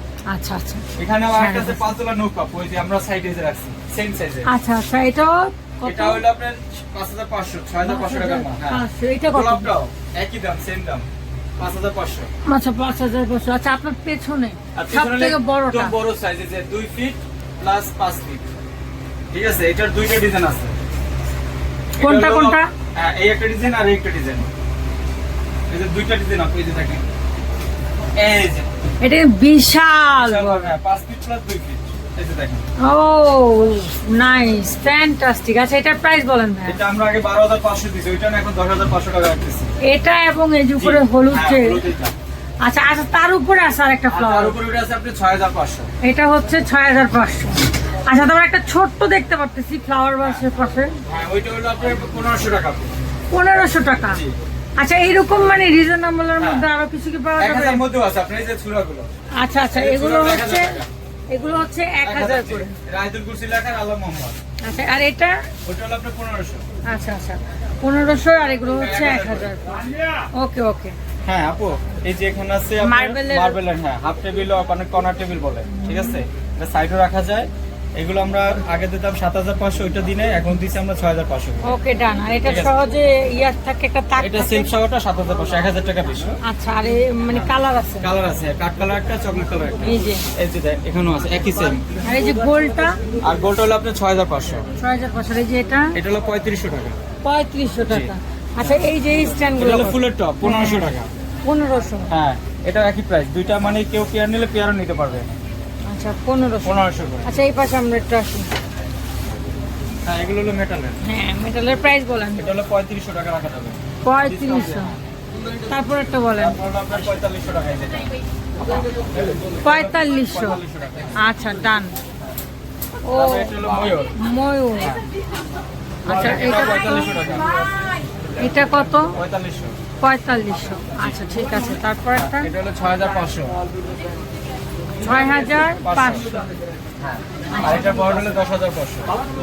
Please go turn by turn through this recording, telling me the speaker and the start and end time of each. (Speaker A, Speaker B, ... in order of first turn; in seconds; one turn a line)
Speaker A: 0.3-1.9
Speaker B: 1.0-4.5
Speaker A: 4.4-6.2
Speaker B: 5.8-11.1
Speaker A: 7.8-9.7
Speaker B: 11.6-12.3
Speaker A: 12.4-16.0
Speaker B: 14.7-18.5
Speaker B: 19.3-20.8
Speaker B: 22.0-24.5
Speaker A: 22.0-22.7
Speaker B: 25.7-27.0
Speaker B: 28.1-28.7
Speaker A: 29.0-30.7
Speaker B: 30.1-32.7
Speaker A: 32.8-36.8
Speaker B: 36.6-39.7
Speaker A: 39.8-41.8
Speaker B: 40.8-42.1
Speaker A: 42.6-44.6
Speaker B: 44.1-45.9
Speaker A: 46.0-51.0
Speaker B: 51.0-52.9
Speaker A: 53.3-54.2
Speaker B: 54.1-54.4
Speaker A: 54.8-57.8
Speaker B: 56.4-56.6
Speaker B: 57.4-59.1
Speaker A: 59.4-62.7
Speaker B: 59.7-60.9
Speaker B: 62.0-64.4
Speaker A: 64.6-65.4
Speaker B: 65.7-66.6
Speaker A: 66.8-70.9
Speaker B: 68.8-69.5
Speaker B: 71.2-81.7
Speaker A: 72.8-73.6
Speaker A: 75.8-76.2
Speaker A: 81.6-84.7
Speaker B: 82.4-82.7
Speaker B: 84.2-86.3
Speaker A: 86.4-88.1
Speaker B: 87.3-91.8
Speaker A: 89.8-90.2
Speaker A: 92.0-93.0
Speaker B: 93.2-94.7
Speaker A: 94.8-96.0
Speaker B: 95.9-97.0
Speaker A: 97.2-100.9
Speaker B: 97.9-98.8
Speaker B: 99.5-101.1
Speaker A: 101.4-102.1
Speaker B: 102.1-105.3
Speaker A: 105.8-108.5
Speaker B: 106.6-107.3
Speaker B: 110.0-111.0
Speaker A: 111.0-112.4
Speaker B: 112.4-115.0
Speaker A: 114.0-114.9
Speaker A: 115.7-116.6
Speaker B: 116.3-121.2
Speaker A: 119.6-120.6
Speaker A: 121.2-122.0
Speaker A: 123.0-125.0
Speaker B: 123.1-124.1
Speaker A: 126.0-127.4
Speaker B: 126.1-127.5
Speaker A: 128.4-129.2
Speaker B: 129.1-129.8
Speaker A: 130.0-132.5
Speaker B: 132.1-133.6
Speaker A: 135.0-136.5
Speaker B: 135.0-139.2
Speaker A: 137.5-138.1